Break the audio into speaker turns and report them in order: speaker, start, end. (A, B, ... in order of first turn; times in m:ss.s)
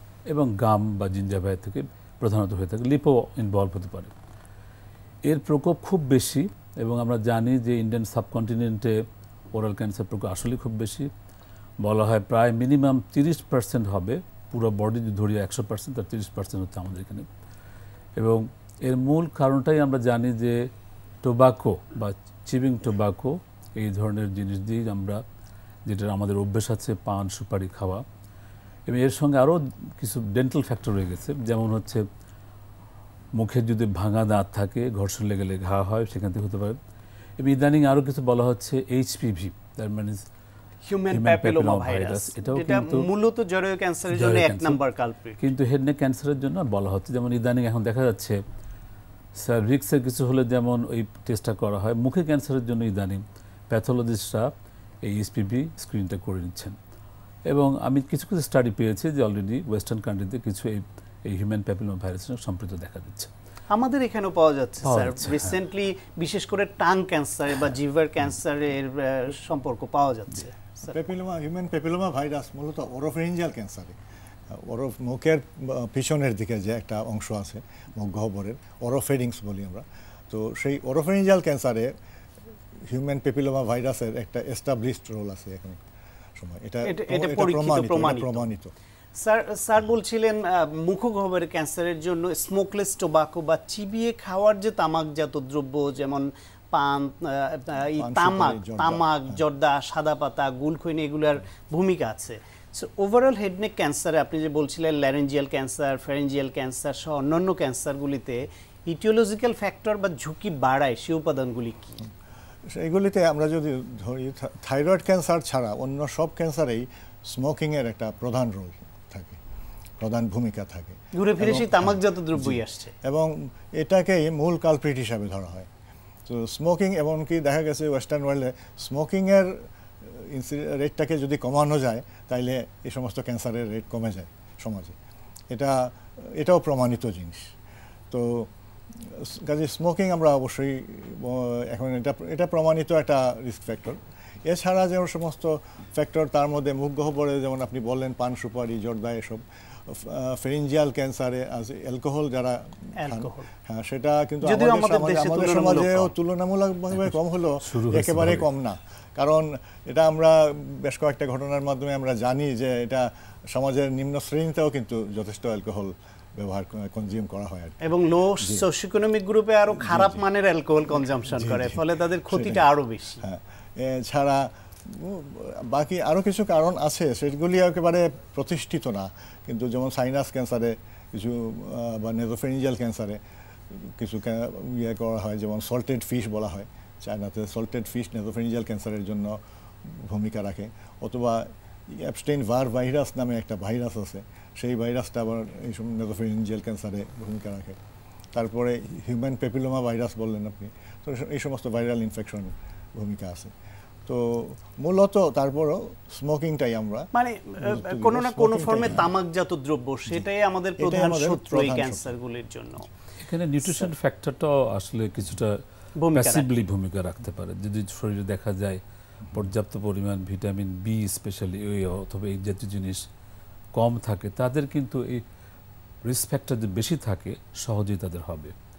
0:00.3-0:04.1 A
0:05.2-0:09.0 A
0:09.5-0:11.1 A
0:11.8-0:17.3 A
0:18.2-0:20.6 A
0:21.2-0:25.2 A
0:25.8-0:28.0 A
0:28.9-0:32.0 A
0:33.4-0:36.8 A
0:37.4-0:40.2 A
0:40.9-0:45.4 B
0:41.1-0:43.1 A
0:44.1-0:44.8 A
0:45.4-0:48.4 A
0:49.4-0:54.5 A
0:55.0-0:56.7 A
0:57.5-1:03.3 A
1:03.7-1:11.0 B
1:04.8-1:05.5 A
1:10.8-1:14.0 C
1:14.5-1:21.9 C
1:22.9-1:25.8 C
1:26.4-1:28.7 C
1:26.8-1:28.4 B
1:29.2-1:52.0 B
1:38.0-1:39.4 C
1:52.7-1:59.4 C
2:00.0-2:05.7 C
2:01.1-2:02.9 B
2:06.2-2:15.0 C
2:15.5-2:17.5 C
2:18.1-2:18.5 C
2:19.0-2:47.8 C
2:33.0-2:33.5 B
2:34.4-2:36.1 B
2:37.6-2:38.5 A
2:47.8-2:53.2 B
2:48.4-2:48.7 C
2:49.8-2:50.2 C
2:51.3-2:52.7 C
2:53.2-3:03.2 C
3:03.7-3:17.8 C
3:18.3-3:23.5 C
3:24.0-3:27.1 C
3:27.1-3:32.9 B
3:27.6-3:29.1 C
3:30.8-3:32.1 C
3:33.2-3:35.5 A
3:33.6-3:33.9 B
3:36.0-3:36.5 B
3:36.1-3:38.8 A
3:39.3-3:43.0 A
3:43.8-3:45.2 A
3:46.0-3:48.5 A